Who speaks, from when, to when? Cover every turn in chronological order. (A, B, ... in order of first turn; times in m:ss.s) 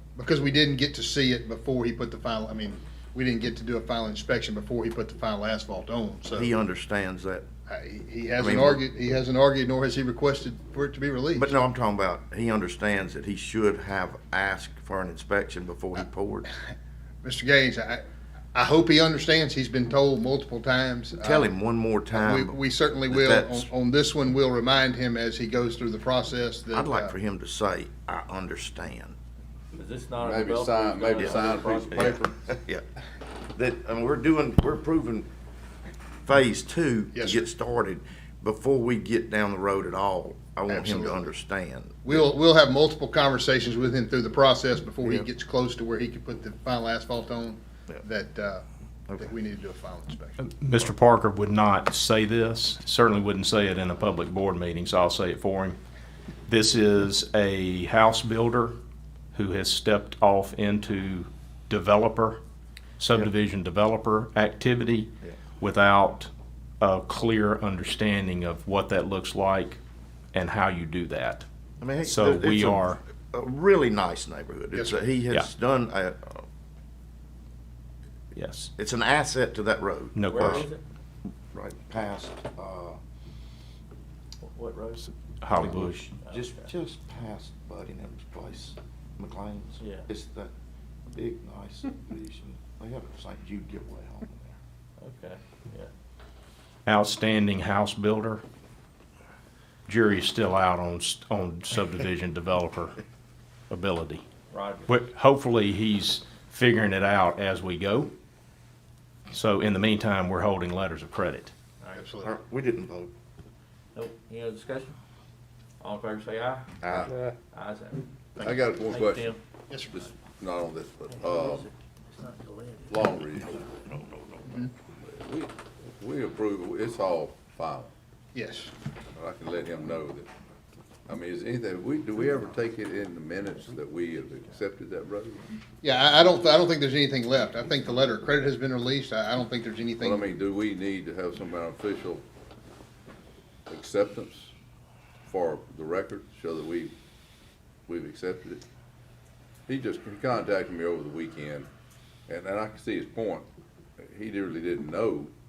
0:00.2-0:06.5 A
0:06.3-0:07.5 B
0:07.7-0:11.6 A
0:08.4-0:08.8 B
0:11.3-0:16.5 B
0:17.2-0:18.0 A
0:18.5-0:21.5 A
0:21.2-0:23.7 B
0:22.1-0:27.1 A
0:26.7-0:29.2 B
0:29.7-0:32.1 C
0:30.2-0:32.4 D
0:31.2-0:32.8 B
0:33.6-0:35.3 B
0:36.2-0:42.2 B
0:37.1-0:37.4 A
0:40.7-0:41.2 A
0:42.0-0:48.6 A
0:49.2-0:50.4 A
0:50.4-0:55.8 E
0:56.5-0:58.8 E
0:59.3-1:02.4 E
1:03.0-1:06.3 E
1:06.8-1:09.8 E
1:10.3-1:11.4 E
1:11.8-1:16.5 B
1:12.0-1:13.0 E
1:14.7-1:15.0 A
1:18.3-1:18.7 E
1:18.8-1:20.7 B
1:20.2-1:20.7 E
1:20.2-1:20.8 C
1:21.5-1:23.0 B
1:24.4-1:26.7 C
1:25.4-1:26.1 E
1:25.5-1:30.5 B
1:29.8-1:30.1 C
1:31.1-1:34.6 B
1:35.0-1:35.9 C
1:36.9-1:38.4 E
1:39.9-1:43.0 E
1:43.7-1:44.2 E
1:44.5-1:45.0 C
1:44.9-1:48.1 E
1:49.3-1:51.5 E
1:51.8-1:52.1 C
1:51.9-1:52.4 A
1:52.2-1:53.1 B
1:54.0-1:55.0 C
1:55.8-1:58.1 C
1:56.8-1:57.1 B
1:58.4-1:58.6 A
1:58.4-1:59.3 D
1:58.8-1:59.4 C
1:59.7-2:00.0 A
1:59.9-2:01.7 D
2:01.1-2:03.1 C
2:02.9-2:03.6 D
2:03.4-2:04.7 B
2:05.0-2:07.9 D
2:08.3-2:08.7 A
2:09.2-2:10.3 D
2:11.1-2:15.5 D
2:15.8-2:20.3 A
2:20.0-2:22.2 D
2:23.7-2:24.5 D
2:25.3-2:26.9 D
2:27.9-2:28.6 D
2:29.7-2:31.7 D
2:32.3-2:33.5 D
2:34.0-2:35.3 D